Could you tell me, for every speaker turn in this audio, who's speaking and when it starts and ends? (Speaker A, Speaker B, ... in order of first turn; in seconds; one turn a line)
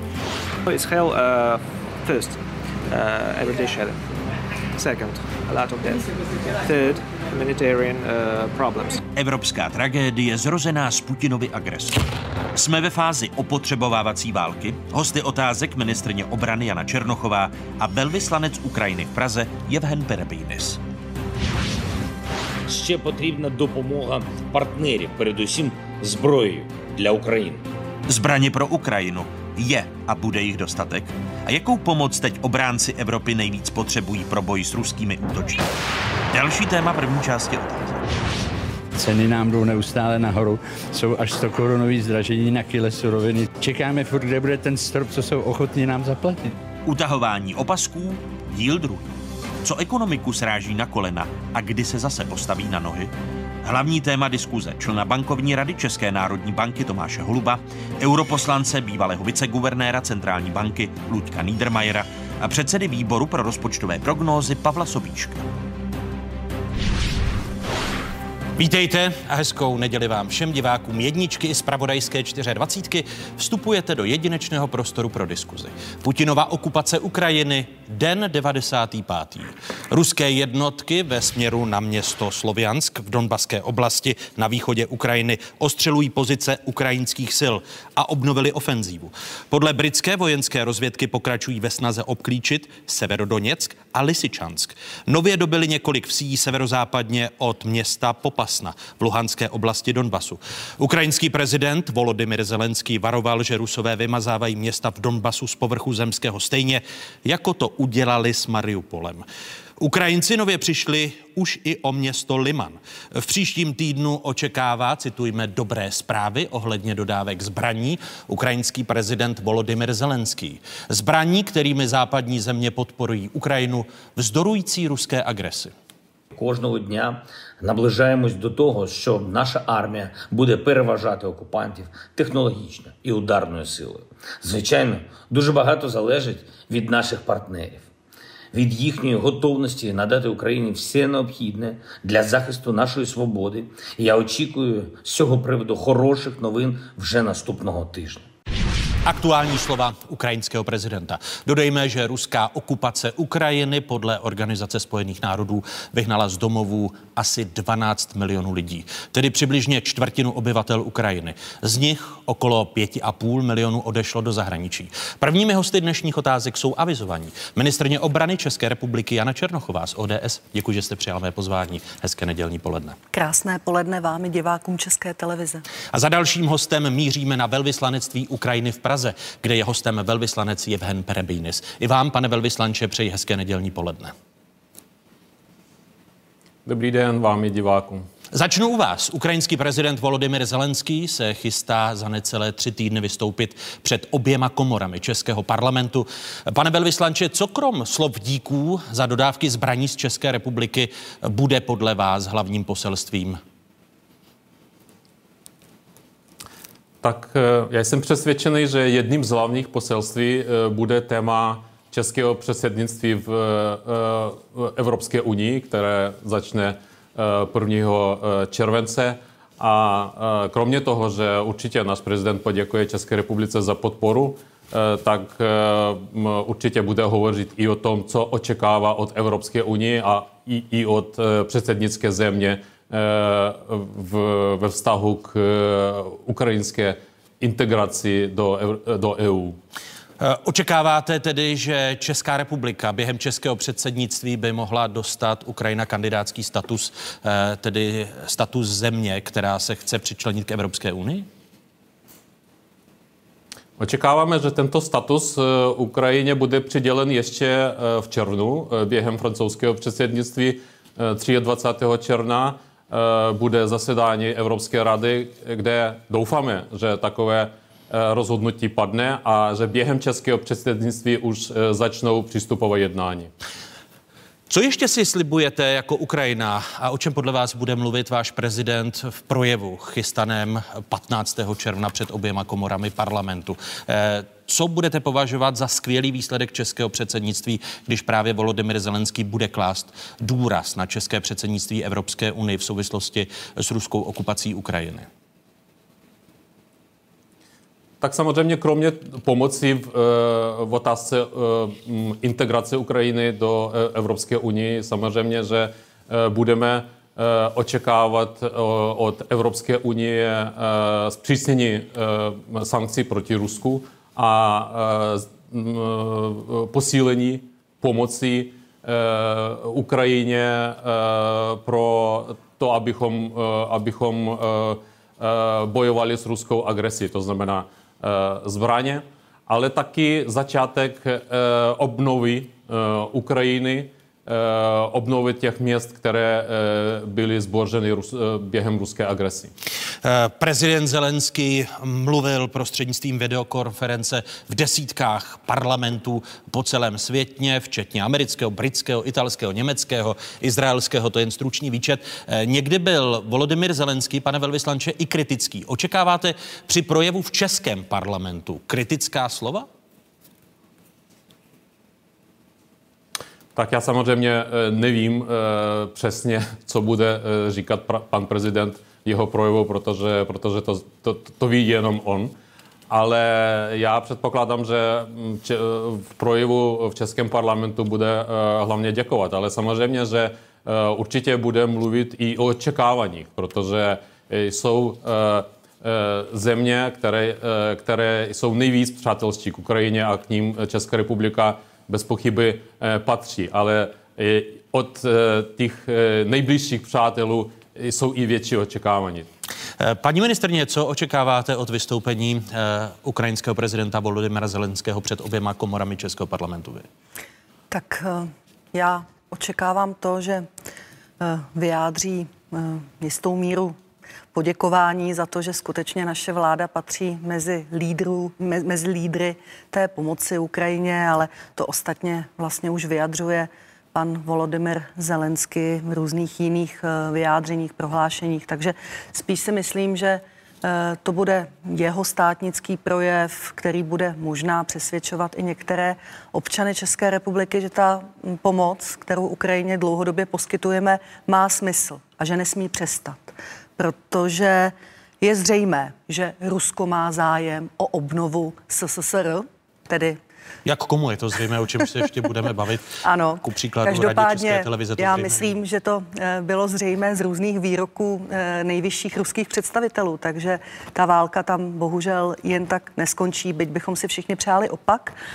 Speaker A: 0.7-2.4
Speaker A: 2.9-4.0
Speaker A: 4.8-6.0
Speaker A: 6.6-9.0
Speaker B: 9.1-12.0
Speaker B: 12.5-20.8
Speaker C: 22.7-27.6
Speaker B: 28.1-35.6
Speaker B: 36.3-38.0
Speaker D: 39.0-46.4
Speaker B: 46.8-53.1
Speaker B: 53.6-65.4
Speaker B: 68.5-109.2
Speaker B: 109.8-125.7
Speaker C: 126.3-137.8
Speaker C: 138.5-148.2
Speaker B: 149.1-173.0
Speaker E: 173.1-175.6
Speaker B: 175.9-184.1
Speaker F: 186.7-188.1
Speaker B: 188.3-203.4
Speaker F: 207.0-239.6
Speaker B: 240.2-251.3
Speaker F: 253.8-273.3
Speaker B: 274.5-295.1
Speaker F: 298.0-339.5
Speaker B: 340.0-359.7
Speaker F: 363.5-372.3
Speaker F: 372.9-399.3
Speaker B: 399.8-406.9
Speaker E: 407.7-410.4
Speaker E: 411.2-413.7
Speaker E: 414.3-450.2
Speaker B: 450.6-455.5
Speaker E: 453.0-465.1